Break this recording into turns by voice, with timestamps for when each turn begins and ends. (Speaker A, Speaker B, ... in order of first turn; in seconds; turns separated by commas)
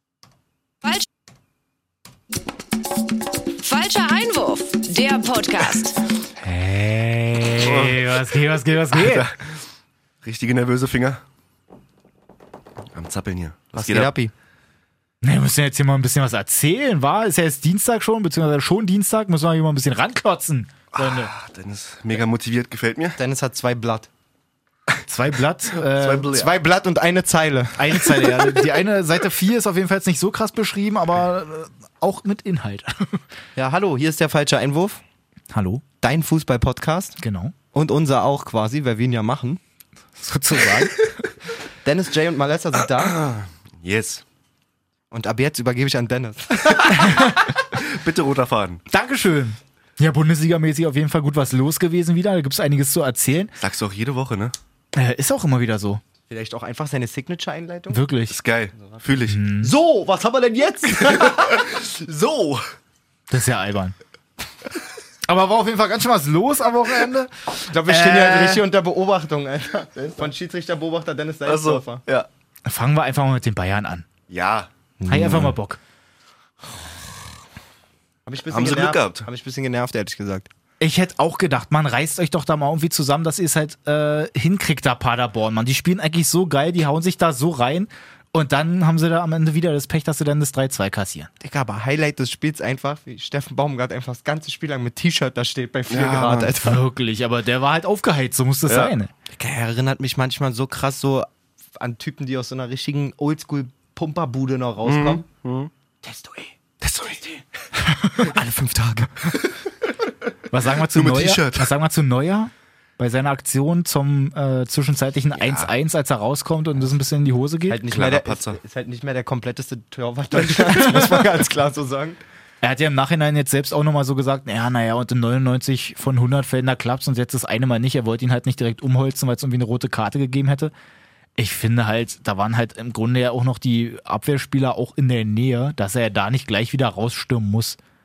Speaker A: 3.5-6.0, Speaker B: 6.4-9.3, Speaker C: 7.6-8.2, Speaker C: 8.9-9.6, Speaker C: 10.2-11.2, Speaker C: 12.9-14.1, Speaker D: 13.8-14.3, Speaker B: 15.2-21.3, Speaker C: 20.9-23.2, Speaker D: 23.2-24.1, Speaker B: 25.1-26.4, Speaker C: 25.8-26.5, Speaker D: 26.3-28.8, Speaker B: 27.8-33.2, Speaker D: 33.6-35.0, Speaker B: 35.5-35.8, Speaker D: 36.0-37.2, Speaker B: 37.2-37.5, Speaker D: 37.7-39.6, Speaker B: 40.2-41.2, Speaker D: 41.8-43.2, Speaker C: 43.0-44.2, Speaker D: 45.1-47.5, Speaker C: 47.7-48.8, Speaker B: 48.9-53.5, Speaker C: 53.6-54.5, Speaker B: 54.9-56.0, Speaker D: 56.3-58.0, Speaker B: 57.9-58.4, Speaker C: 58.3-59.4, Speaker B: 59.3-59.7, Speaker D: 59.6-61.9, Speaker C: 61.2-62.6, Speaker B: 63.3-64.0, Speaker B: 65.2-68.6, Speaker D: 67.7-72.0, Speaker C: 70.0-70.3, Speaker C: 71.5-72.3, Speaker B: 72.7-74.0, Speaker C: 74.3-74.7, Speaker D: 75.0-75.6, Speaker B: 75.1-75.8, Speaker D: 78.3-80.5, Speaker C: 78.5-79.3, Speaker B: 80.8-91.3, Speaker D: 91.4-96.8, Speaker C: 95.9-96.5, Speaker B: 96.6-99.1, Speaker C: 98.7-98.9, Speaker D: 99.3-105.2, Speaker C: 104.8-105.7, Speaker D: 106.0-106.5, Speaker C: 106.8-107.4, Speaker B: 108.0-108.3, Speaker D: 108.2-109.3, Speaker B: 110.5-117.8, Speaker C: 110.8-111.7, Speaker C: 115.4-115.7, Speaker D: 117.7-122.2, Speaker C: 117.9-118.6, Speaker B: 122.6-130.7, Speaker B: 131.4-137.8